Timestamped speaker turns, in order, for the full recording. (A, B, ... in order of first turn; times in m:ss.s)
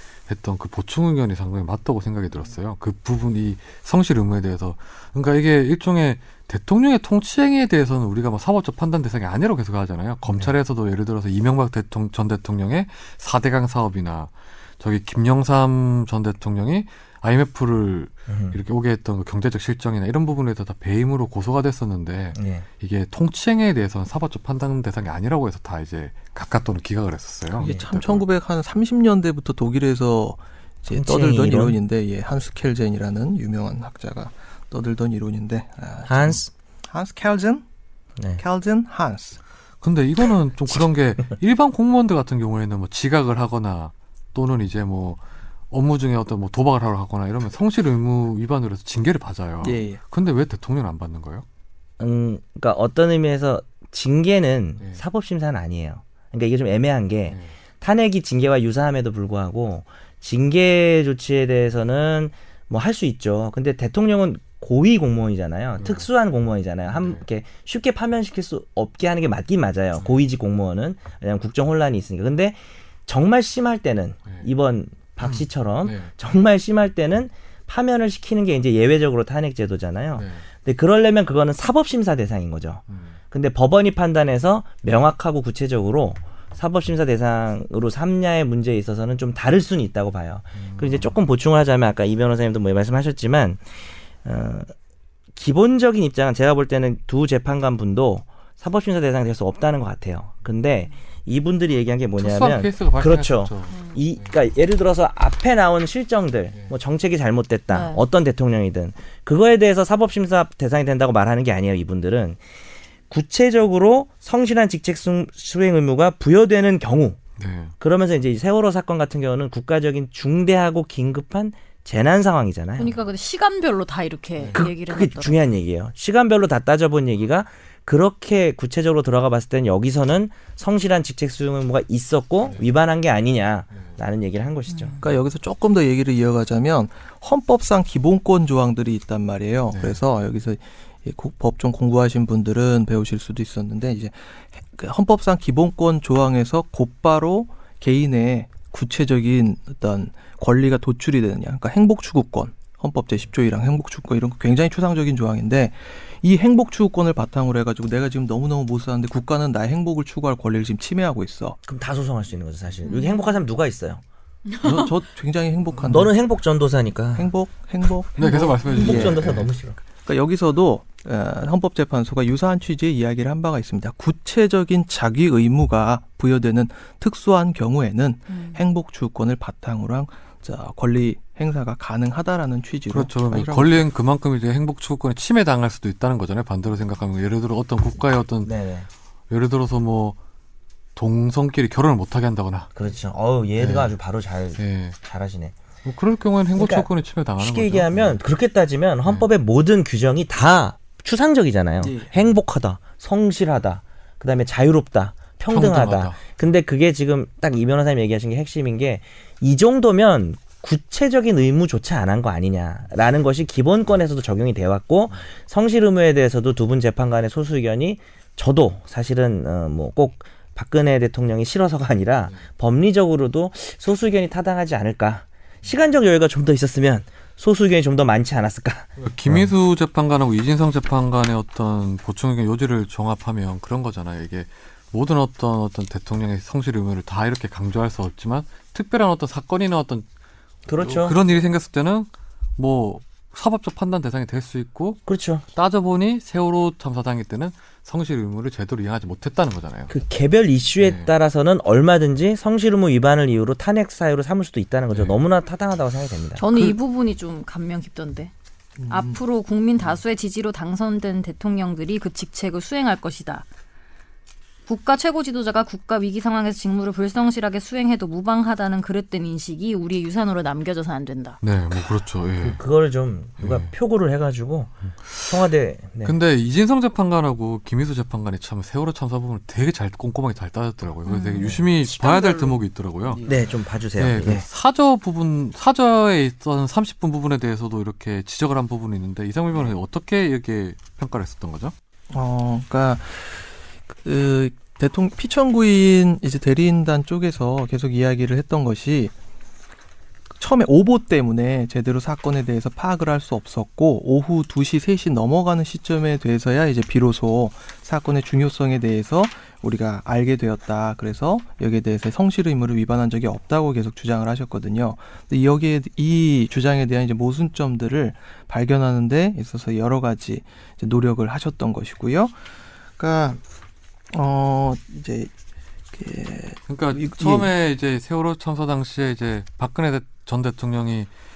0:00.3-0:28.2 A
0:18.3-0:18.6 B
0:22.4-0:22.7 B
0:27.5-0:37.6 C
0:27.6-0:27.9 B
0:30.9-0:31.8 B
0:36.0-0:36.5 B
0:38.4-0:39.4 C
0:39.8-0:45.2 A
0:45.7-0:51.4 A
0:49.6-0:50.0 C
0:52.0-1:34.7 B
0:57.3-0:57.5 A
1:05.8-1:06.1 A
1:06.9-1:07.2 A
1:15.2-1:16.1 A
1:20.2-1:20.5 A
1:22.9-1:23.2 A
1:30.6-1:31.1 A
1:35.4-1:52.4 B
1:42.2-1:44.3 A
1:43.7-1:44.0 D
1:47.7-1:48.0 D
1:53.1-1:57.2 B
1:57.4-1:57.7 A
1:57.8-2:03.0 B
2:02.8-2:05.4 D
2:04.4-2:04.6 A
2:04.5-2:15.0 B
2:14.7-2:15.0 D
2:15.0-2:41.6 C
2:19.7-2:20.0 A
2:41.7-2:44.0 B
2:42.8-2:43.3 D
2:44.5-2:44.9 D
2:44.6-2:46.2 C
2:45.8-2:47.3 B
2:47.2-2:49.3 C
2:48.2-2:49.5 A
2:48.7-2:49.8 B
2:50.0-3:03.9 C
2:58.3-2:58.6 D
3:02.9-3:08.5 A
3:08.4-3:08.9 B
3:09.3-3:10.2 A
3:11.0-3:12.7 A
3:12.7-3:15.6 B
3:13.6-3:14.0 A
3:14.6-3:15.0 A
3:15.8-3:18.2 A
3:16.6-3:16.9 B
3:17.4-3:49.5 B
3:21.8-3:22.1 C
3:25.5-3:26.2 A
3:49.0-4:00.1 A
4:00.7-4:01.2 B
4:00.8-4:05.0 A
4:05.1-4:05.4 B
4:05.5-4:09.9 A
4:09.9-4:16.7 B
4:10.8-4:11.1 A
4:16.4-4:18.3 D
4:18.8-4:19.2 C
4:18.9-4:23.4 D
4:24.7-4:31.4 D
4:31.4-4:32.6 A
4:32.4-4:36.2 B
4:33.4-4:33.7 A
4:35.1-4:35.4 A
4:36.0-4:43.3 A
4:41.1-4:42.5 D
4:43.1-4:43.5 C
4:43.2-4:44.5 B
4:44.0-4:51.7 A
4:52.1-4:53.5 C
4:54.0-4:59.1 C
5:00.4-5:22.4 C
5:23.0-5:23.4 C
5:24.1-5:25.3 C
5:25.9-5:27.5 C
5:26.7-5:31.1 A